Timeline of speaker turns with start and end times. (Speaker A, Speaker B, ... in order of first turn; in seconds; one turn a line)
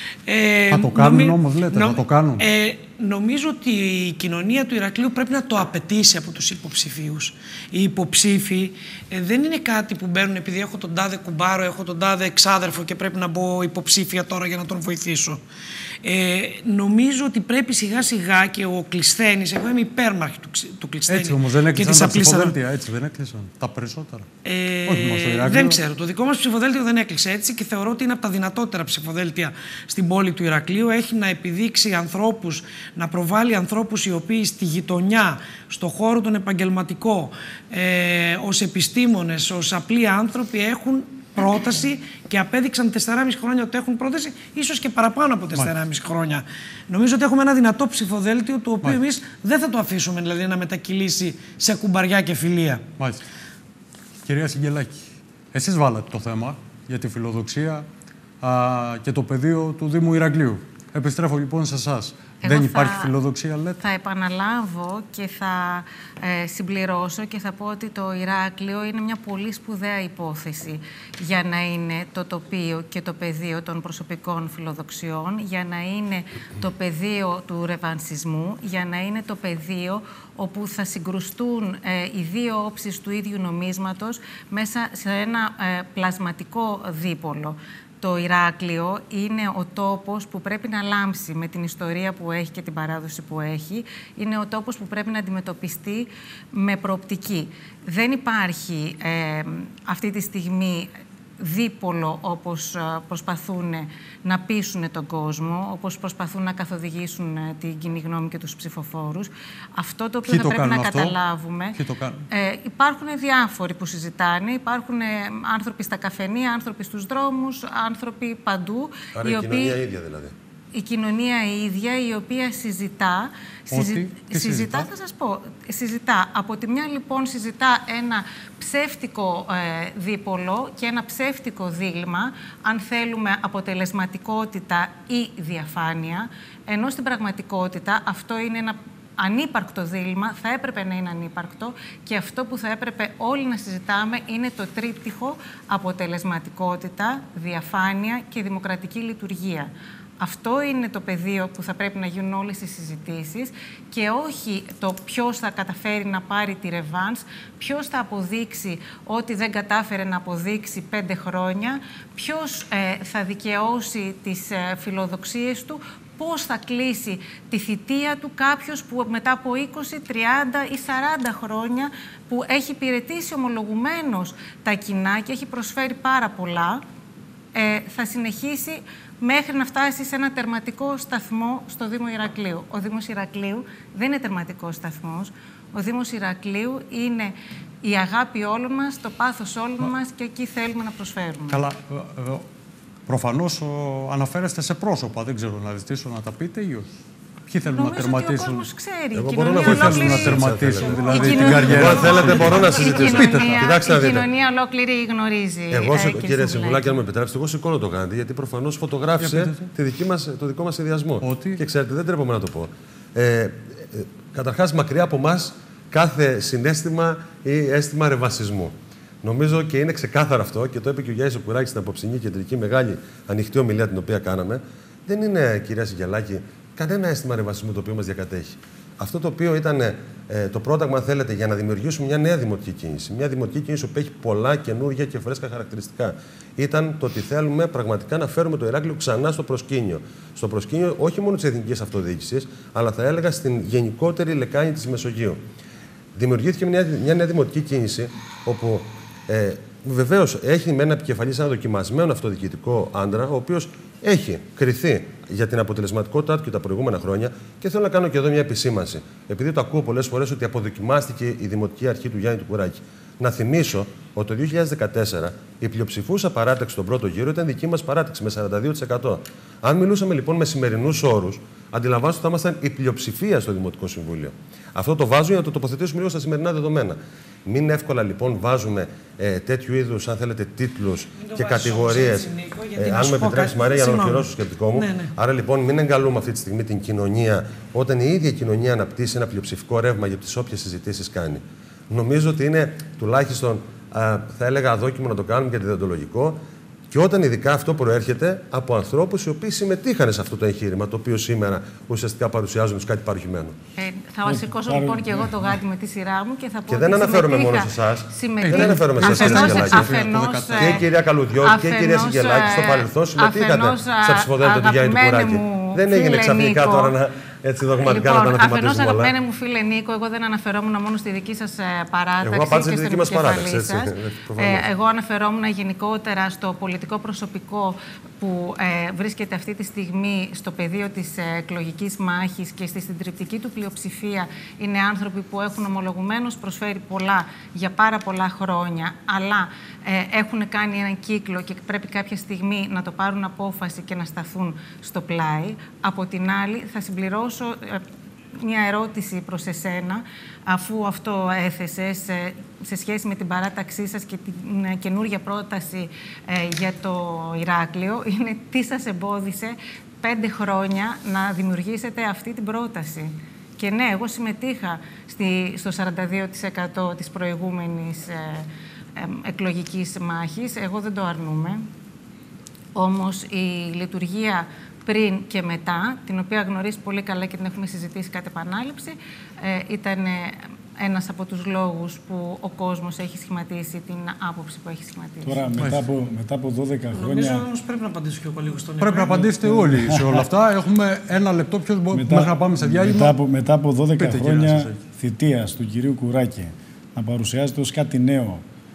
Speaker A: 0.2-15.4
Speaker B: 0.7-2.5
Speaker A: 16.0-22.6
Speaker B: 21.1-24.3
Speaker A: 24.4-52.8
Speaker B: 24.9-25.8
Speaker B: 54.2-57.8
Speaker B: 58.4-63.8
Speaker C: 62.4-63.1
Speaker C: 63.8-111.8
Speaker B: 110.3-111.2
Speaker B: 111.8-112.2
Speaker C: 112.3-119.8
Speaker D: 119.1-120.3
Speaker C: 120.7-176.8
Speaker B: 123.7-124.9
Speaker C: 177.5-191.6
Speaker B: 191.5-192.4
Speaker B: 193.1-196.9
Speaker B: 197.5-198.6
Speaker C: 197.6-200.5
Speaker D: 199.1-204.2
Speaker B: 199.6-203.6
Speaker C: 201.0-207.0
Speaker A: 201.6-203.6
Speaker D: 205.7-245.4
Speaker B: 209.2-209.7
Speaker B: 211.2-211.6
Speaker D: 246.1-296.4
Speaker A: 281.2-285.1
Speaker D: 296.9-303.6
Speaker C: 303.8-310.8
Speaker E: 304.2-305.2
Speaker D: 306.7-309.9
Speaker B: 308.4-310.8
Speaker D: 310.6-319.1
Speaker C: 311.4-316.9
Speaker C: 317.8-347.8
Speaker D: 322.2-324.6
Speaker C: 348.4-371.6
Speaker C: 372.8-385.5
Speaker E: 385.2-387.4
Speaker B: 385.6-385.8
Speaker A: 386.9-389.4
Speaker B: 388.8-393.1
Speaker E: 389.4-390.3
Speaker E: 391.9-398.4
Speaker B: 394.0-394.8